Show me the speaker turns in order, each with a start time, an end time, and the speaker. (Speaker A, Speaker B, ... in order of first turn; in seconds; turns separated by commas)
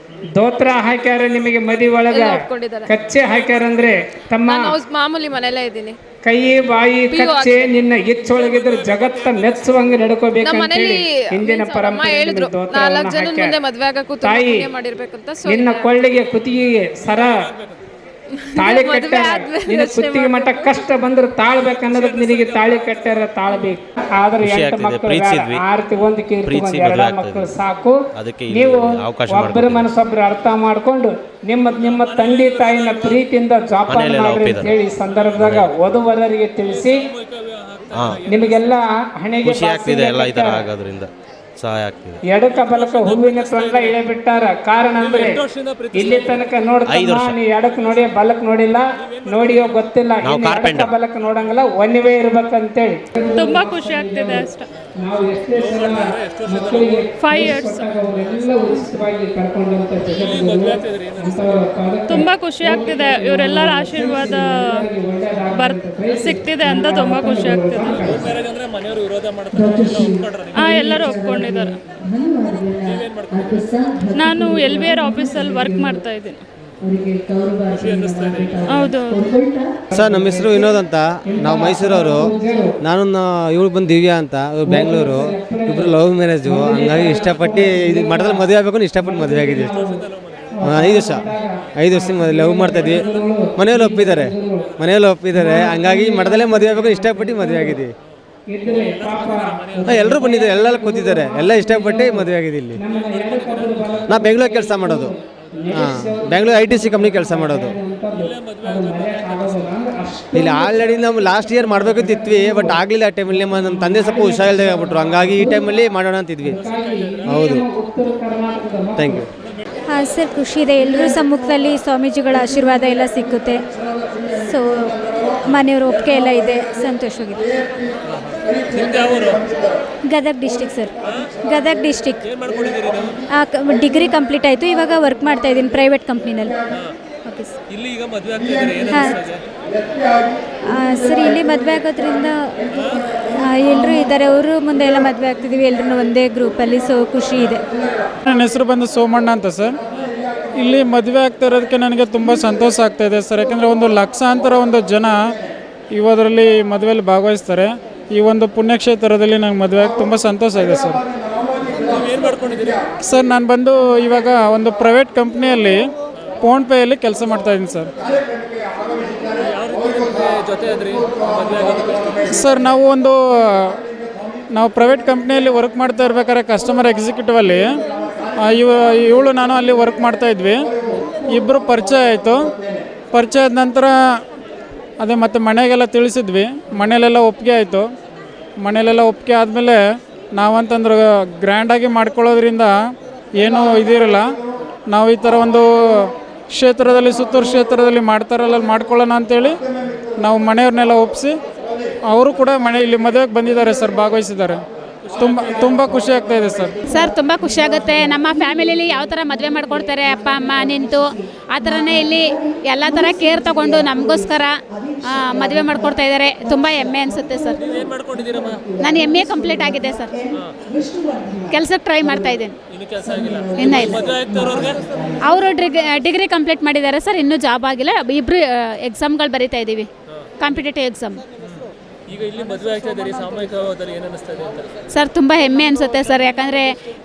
Speaker A: 0.4-4.7, Speaker B: 2.1-2.9, Speaker B: 4.5-6.0, Speaker A: 6.2-13.6, Speaker B: 7.1-7.7, Speaker B: 10.4-15.9, Speaker A: 14.2-14.7, Speaker A: 15.5-17.3, Speaker B: 18.4-20.8, Speaker A: 18.6-37.0, Speaker C: 24.4-25.6, Speaker C: 26.4-27.5, Speaker C: 28.1-29.9, Speaker C: 33.9-34.8, Speaker C: 35.4-36.0, Speaker D: 37.7-38.0, Speaker C: 37.9-38.2, Speaker A: 38.2-40.7, Speaker C: 39.4-42.2, Speaker A: 42.3-68.3, Speaker D: 45.3-46.2, Speaker C: 46.9-47.4, Speaker C: 50.2-50.9, Speaker E: 53.4-54.7, Speaker D: 55.9-56.7, Speaker E: 57.2-57.9, Speaker E: 62.1-64.8, Speaker E: 65.5-67.9, Speaker F: 66.8-67.7, Speaker D: 68.1-70.5, Speaker G: 69.6-76.0, Speaker E: 70.7-71.7, Speaker D: 73.1-73.4, Speaker E: 74.2-76.4, Speaker F: 74.9-75.9, Speaker G: 76.8-79.7, Speaker D: 77.9-78.6, Speaker E: 78.7-79.2, Speaker A: 79.9-80.8, Speaker H: 79.9-82.2, Speaker A: 81.3-82.7, Speaker H: 82.8-89.8, Speaker A: 84.7-88.5, Speaker A: 89.0-94.7, Speaker H: 90.7-91.2, Speaker H: 91.8-93.1, Speaker H: 93.6-97.9, Speaker A: 95.3-97.8, Speaker A: 98.5-115.7, Speaker D: 99.1-100.0, Speaker H: 99.9-102.8, Speaker H: 104.1-105.1, Speaker H: 105.8-107.8, Speaker H: 110.3-116.6, Speaker A: 116.4-119.3, Speaker H: 117.3-117.7, Speaker H: 119.0-119.3, Speaker G: 119.9-123.6, Speaker G: 124.4-127.7, Speaker D: 128.3-129.4, Speaker G: 130.1-130.9, Speaker G: 131.5-132.2, Speaker D: 132.3-133.1, Speaker G: 133.3-136.6, Speaker G: 137.2-137.6, Speaker D: 137.7-139.4, Speaker G: 138.9-139.2, Speaker G: 140.7-142.5, Speaker G: 143.4-147.6, Speaker I: 148.3-149.8, Speaker I: 150.6-155.2, Speaker I: 155.9-161.0, Speaker D: 161.8-162.8, Speaker I: 163.0-165.8, Speaker I: 166.4-167.9, Speaker D: 169.4-172.2, Speaker I: 172.3-173.8, Speaker I: 174.5-177.7, Speaker I: 178.4-180.7, Speaker I: 181.2-182.4, Speaker I: 183.1-183.9, Speaker I: 185.0-187.8, Speaker I: 188.6-189.8, Speaker I: 190.3-192.7, Speaker I: 193.4-194.2, Speaker I: 194.9-199.6, Speaker I: 200.2-201.3, Speaker I: 202.1-204.6, Speaker I: 205.2-206.8, Speaker F: 206.9-211.0, Speaker F: 211.5-214.5, Speaker F: 215.2-217.6, Speaker D: 217.6-218.7, Speaker F: 218.8-220.1, Speaker F: 221.5-222.6, Speaker D: 222.8-224.8, Speaker F: 223.6-223.9, Speaker F: 225.3-229.9, Speaker F: 230.4-231.2, Speaker D: 232.1-234.7, Speaker F: 234.9-236.7